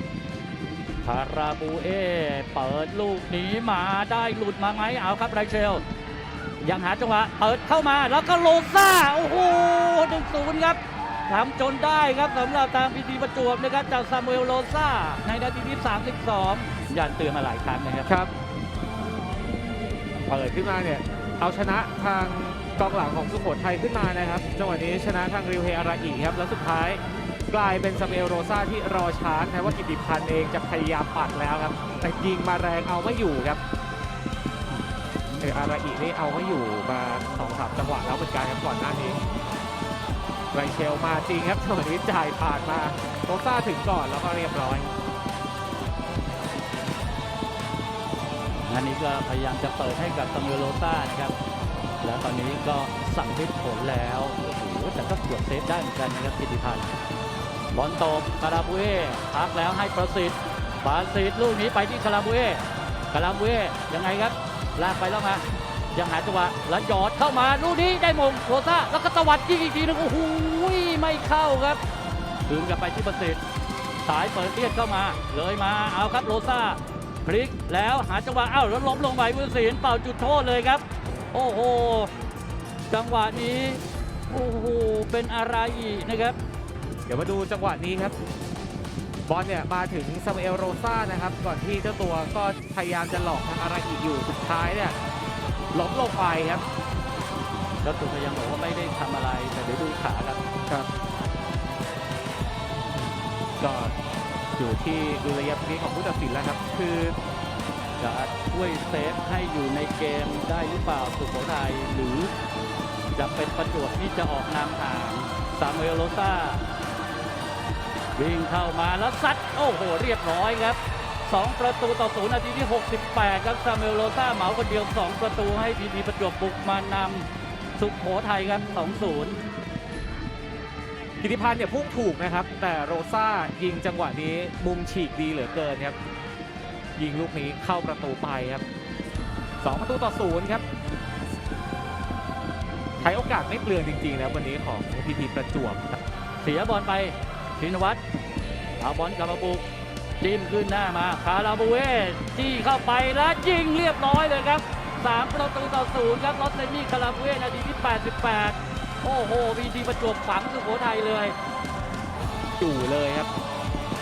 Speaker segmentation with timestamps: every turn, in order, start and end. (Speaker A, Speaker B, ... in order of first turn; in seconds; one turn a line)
Speaker A: 1.0-5.8
Speaker A: 6.6-18.1
Speaker B: 20.3-33.6
Speaker B: 35.4-39.2
Speaker B: 40.5-44.9
Speaker A: 48.5-51.4
Speaker A: 52.0-56.9
Speaker A: 57.7-71.8
Speaker A: 72.5-73.4
Speaker A: 74.0-82.1
Speaker A: 82.9-86.4
Speaker B: 87.1-88.2
Speaker B: 89.3-95.0
Speaker B: 95.7-96.6
Speaker A: 97.8-100.4
Speaker B: 103.6-104.0
Speaker B: 104.6-107.2
Speaker A: 108.0-112.3
Speaker A: 113.2-116.7
Speaker A: 118.2-129.4
Speaker B: 131.2-136.0
Speaker B: 137.0-138.6
Speaker B: 139.6-140.6
Speaker B: 143.0-145.9
Speaker A: 146.4-148.0
Speaker A: 148.8-149.7
Speaker A: 150.2-161.3
Speaker B: 162.6-163.3